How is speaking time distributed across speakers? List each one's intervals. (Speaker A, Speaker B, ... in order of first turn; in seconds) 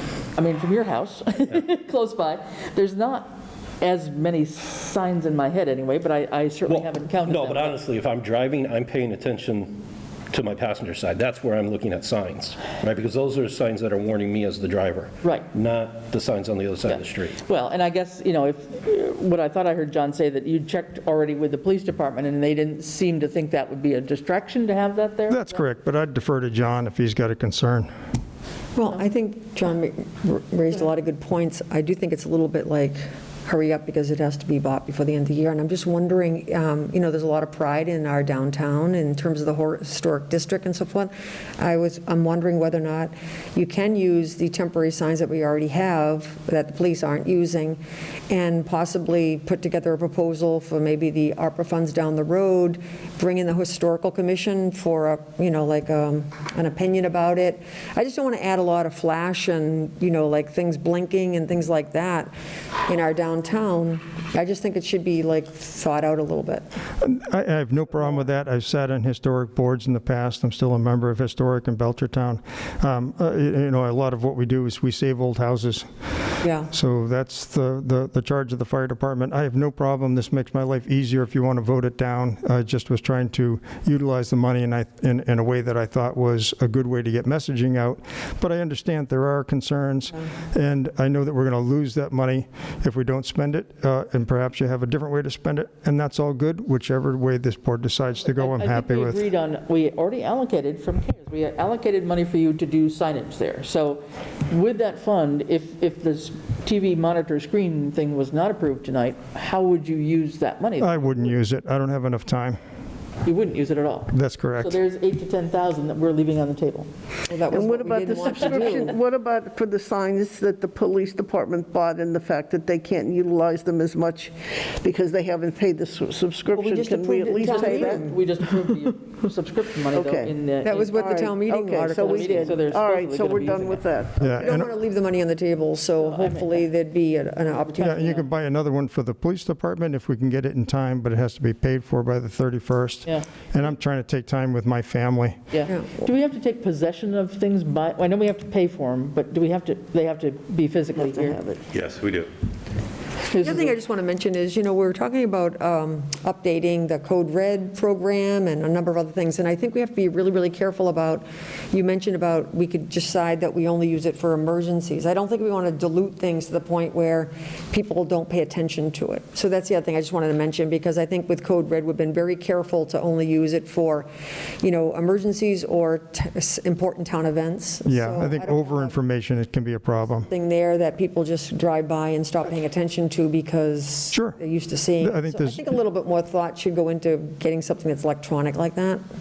Speaker A: 0.3-7.8, 15.2-15.5, 16.9-25.6, 98.3-111.2, 113.2-116.9, 127.5-131.1, 131.8-133.9, 136.0-136.7, 137.5-138.3, 145.5-151.4, 153.3-153.7
Speaker B: 6.7-17.4, 151.7-152.3
Speaker C: 25.3-27.9, 67.0-75.9, 76.7-99.2, 110.8-112.6, 114.1-114.8, 134.2-134.7, 137.8-145.4, 177.9-180.3, 184.1-184.4, 185.0-185.7
Speaker D: 28.8-62.3, 62.9-66.7, 76.4-76.7, 117.3-119.0, 126.5-128.2, 130.6-132.5, 134.3-138.1, 153.4-174.1, 174.6-178.9, 180.3-189.0
Speaker E: 117.5-128.2, 129.9-134.5, 151.0-151.6